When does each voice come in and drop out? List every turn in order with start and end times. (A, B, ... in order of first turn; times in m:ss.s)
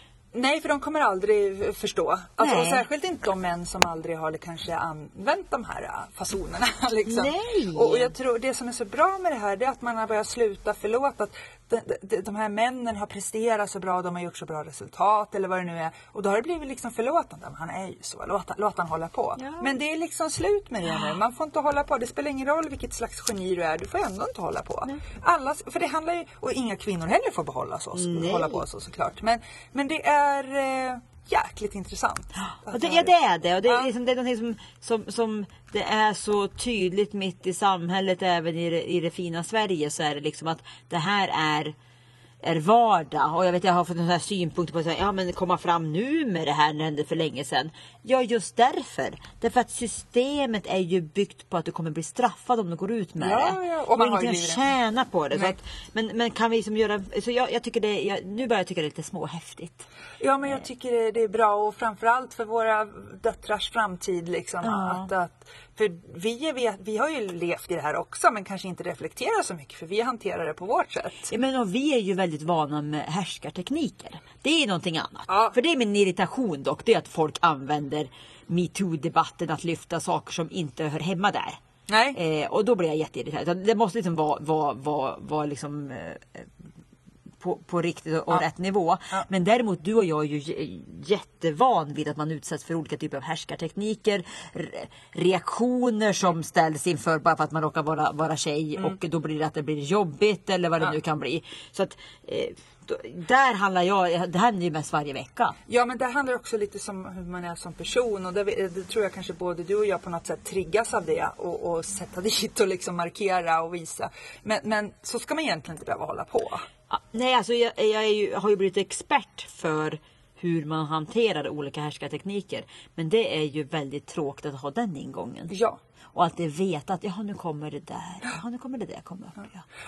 0:00.3-0:33.1 A
0:02.4-0:02.8 B
0:07.0-0:08.1 B
0:19.4-0:19.7 B
0:27.9-0:28.6 B
0:32.4-0:41.7 B
0:42.4-0:59.9 B
0:53.2-0:54.7 A
1:00.2-1:11.3 A
1:04.6-1:05.1 B
1:11.3-1:21.6 B
1:15.3-1:15.5 A
1:21.9-1:22.2 A
1:22.1-1:26.5 B
1:27.4-1:45.6 B
1:45.7-1:56.6 A
1:56.9-2:05.6 B
2:05.5-2:05.8 A
2:06.1-2:09.6 B